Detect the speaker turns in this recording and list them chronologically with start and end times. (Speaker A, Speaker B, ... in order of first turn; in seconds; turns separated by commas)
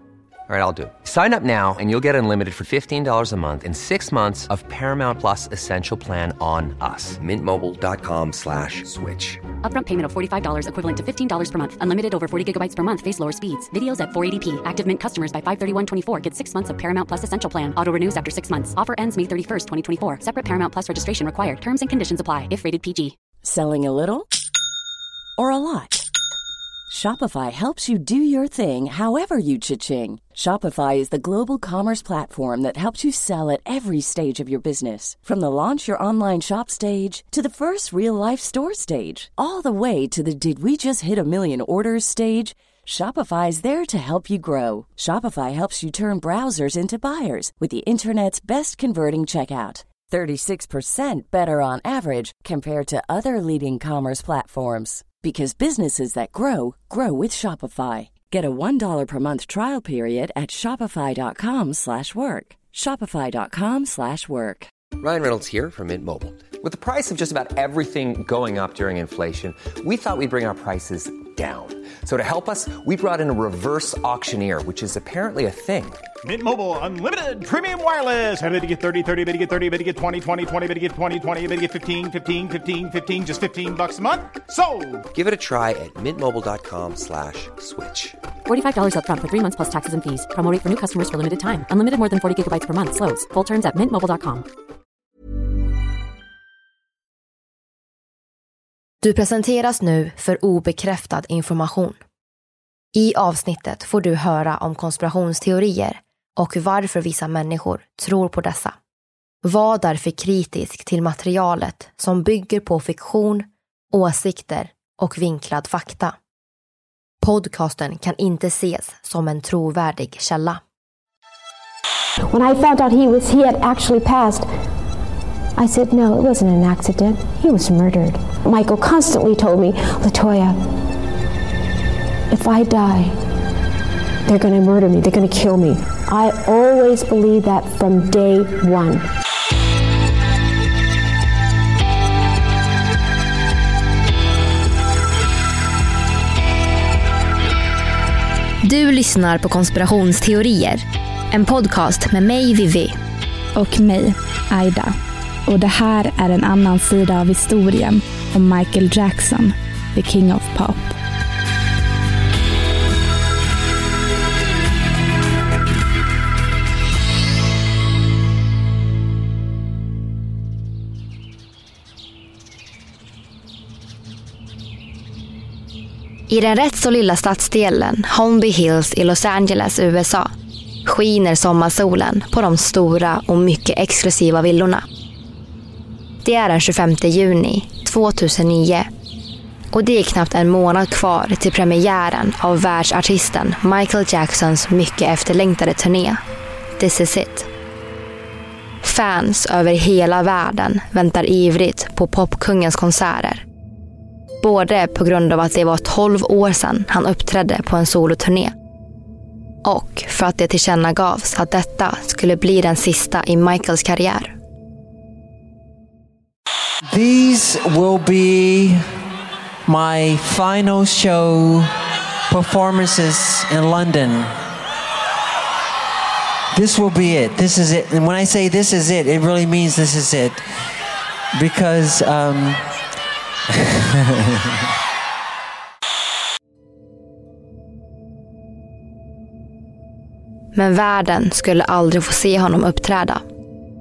Speaker A: 0.5-9.5, Speaker B: 9.5-23.1, Speaker C: 23.4-24.3, Speaker C: 25.4-26.1, Speaker C: 26.9-64.7, Speaker A: 65.0-76.0, Speaker D: 76.2-85.0, Speaker A: 85.1-88.2, Speaker B: 88.5-94.5, Speaker E: 99.0-102.0, Speaker E: 102.9-108.8, Speaker E: 109.4-116.2, Speaker E: 117.2-120.6, Speaker F: 122.3-124.5, Speaker F: 125.5-130.7, Speaker F: 132.3-133.2, Speaker F: 134.2-139.1, Speaker E: 148.6-153.0, Speaker G: 153.5-161.0, Speaker E: 176.3-180.3, Speaker E: 180.8-184.8, Speaker E: 186.2-188.9, Speaker E: 189.7-196.2, Speaker E: 196.8-197.5, Speaker E: 198.8-203.4, Speaker E: 204.4-208.5, Speaker E: 209.6-214.3, Speaker H: 216.9-218.9, Speaker H: 219.7-221.7, Speaker H: 222.3-224.4, Speaker H: 226.5-230.4, Speaker H: 231.3-232.6, Speaker E: 240.5-243.2